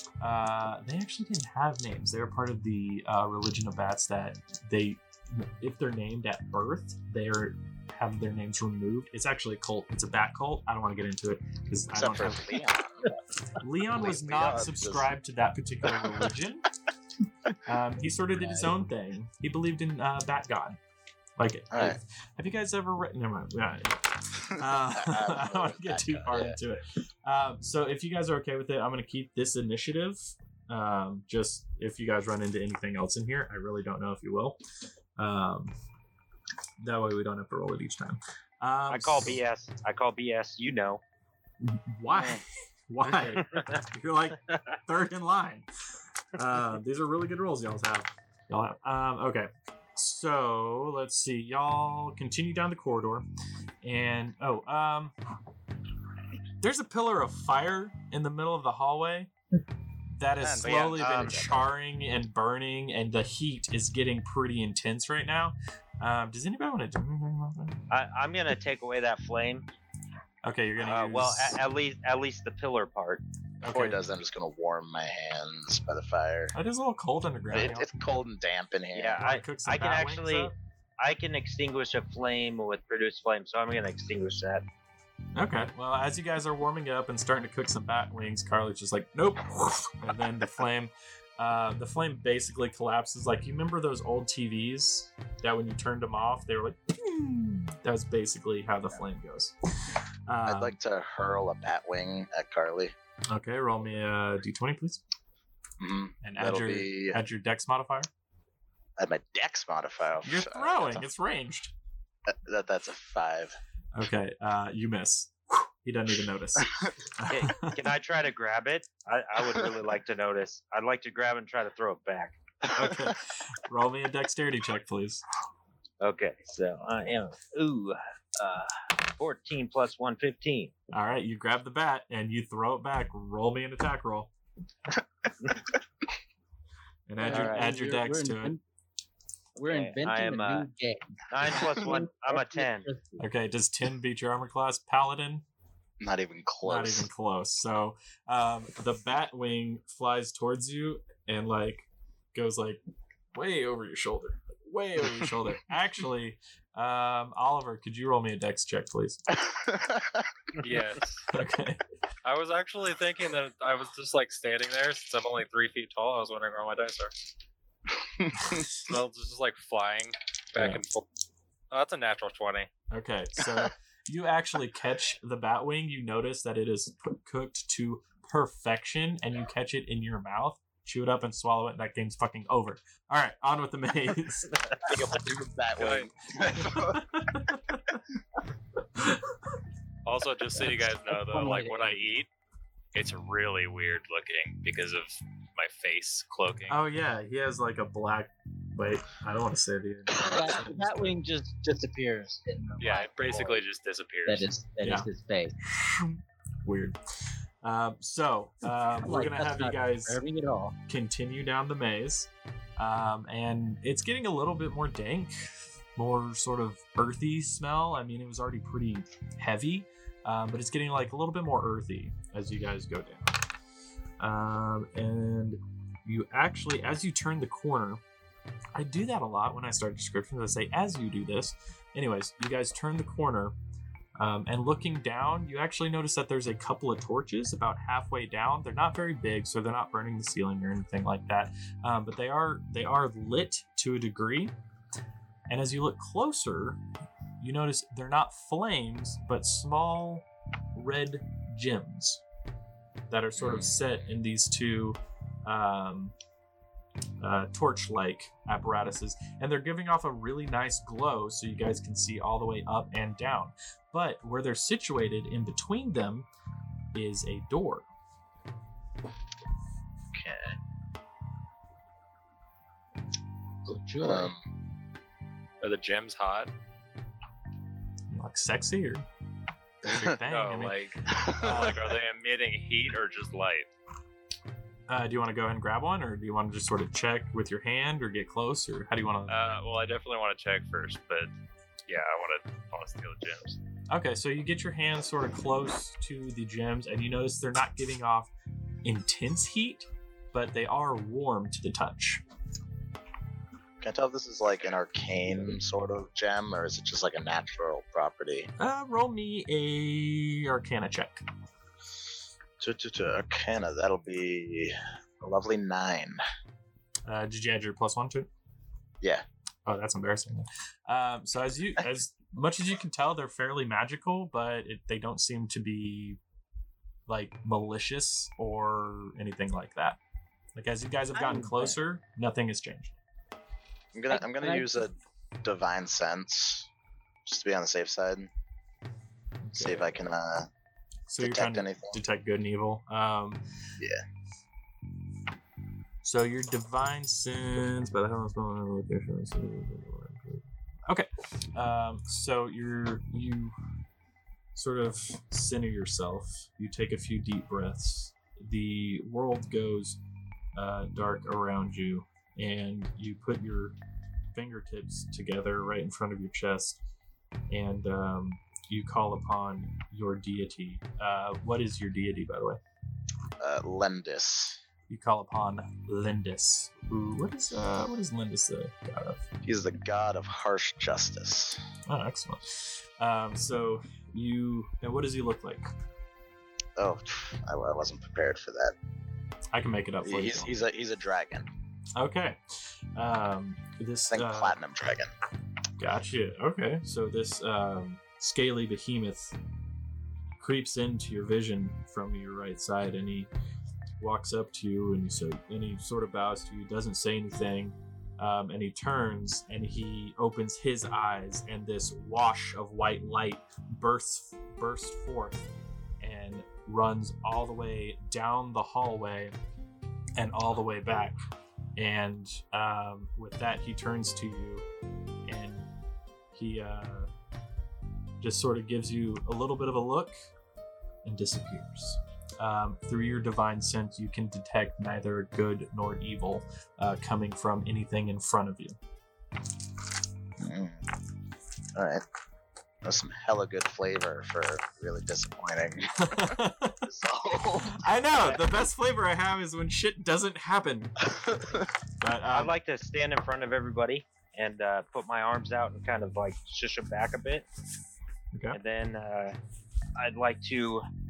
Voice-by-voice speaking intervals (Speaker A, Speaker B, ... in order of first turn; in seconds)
Speaker A: 0.2-12.6, 13.6-16.7, 17.6-20.8, 21.4-34.6, 35.2-35.8, 36.8-39.4, 41.6-45.6, 46.4-53.3, 53.8-55.1, 56.6-59.3, 60.1-67.8, 70.4-71.6, 73.6-74.0, 76.5-77.9, 79.2-80.5, 85.3-100.8, 103.3-105.0, 106.2-108.1, 110.2-111.7, 113.9-117.8, 122.7-125.2, 130.9-134.3, 137.1-138.6, 143.2-145.4, 146.6-152.8, 153.3-159.3, 161.3-161.8, 170.6-170.8, 172.9-184.7, 186.6-188.0, 188.9-189.6, 196.7-201.1, 204.8-205.1, 205.7-207.0, 207.6-210.2, 210.9-223.4, 224.2-228.0, 228.8-233.6, 234.2-244.5, 245.5-246.8, 247.4-252.2, 253.1-256.1, 257.2-266.3, 266.9-267.9, 278.1-279.1, 279.9-280.8, 281.4-281.9, 284.9-289.4, 293.9-298.3, 298.8-302.2, 308.6-311.2, 317.1-318.3, 319.6-326.2, 327.1-330.0, 330.6-332.9, 339.4-339.9, 341.1-343.4, 346.0-353.6, 354.6-360.0, 360.6-363.8, 364.3-366.8, 367.5-372.6, 374.9-379.2, 381.9-385.7, 389.5-390.6, 391.9-394.6, 395.8-399.4, 400.4-403.3, 404.0-415.4, 416.0-419.4, 420.1-421.2, 421.8-424.6, 425.3-425.6, 426.3-427.1, 428.2-430.1, 431.1-438.8, 446.0-446.9, 447.7-451.1, 452.0-452.5, 458.3-458.6
Speaker B: 11.9-13.0, 13.9-15.1, 21.7-22.0, 24.5-26.6, 60.4-61.7, 73.7-76.5, 77.5-79.2, 100.4-102.9, 105.8-107.2, 109.0-111.0, 112.3-113.6, 146.0-147.1, 159.4-160.3, 184.8-187.0, 253.4-253.8, 270.1-270.6, 274.0-274.4, 279.9-280.1, 281.1-281.5, 303.8-308.5, 312.6-316.2, 333.9-336.7, 337.3-338.3, 339.6-340.5, 341.2-342.0, 343.8-344.1, 373.4-374.6, 379.4-381.6, 386.8-388.8, 390.0-391.5, 394.1-395.1, 440.4-440.9, 441.8-442.0, 442.8-447.9, 451.1-451.6
Speaker C: 38.9-41.0, 61.0-61.4, 67.9-69.7, 70.8-73.2, 78.9-84.7, 117.2-122.4, 126.0-130.7, 137.3-137.7, 139.6-140.7, 141.3-142.9, 452.3-457.4, 458.5-459.4, 459.9-460.9
Speaker D: 137.2-138.6, 139.6-143.3, 191.1-192.1, 200.2-203.6, 204.3-205.6, 209.0-210.8, 273.6-274.3, 331.1-331.7, 334.1-334.7
Speaker E: 160.6-161.3, 162.2-167.2, 168.5-171.1, 171.7-172.7, 185.8-186.1, 190.1-192.3, 192.9-196.8, 202.8-204.5, 275.6-276.5, 280.2-283.7, 289.3-291.3, 291.9-293.6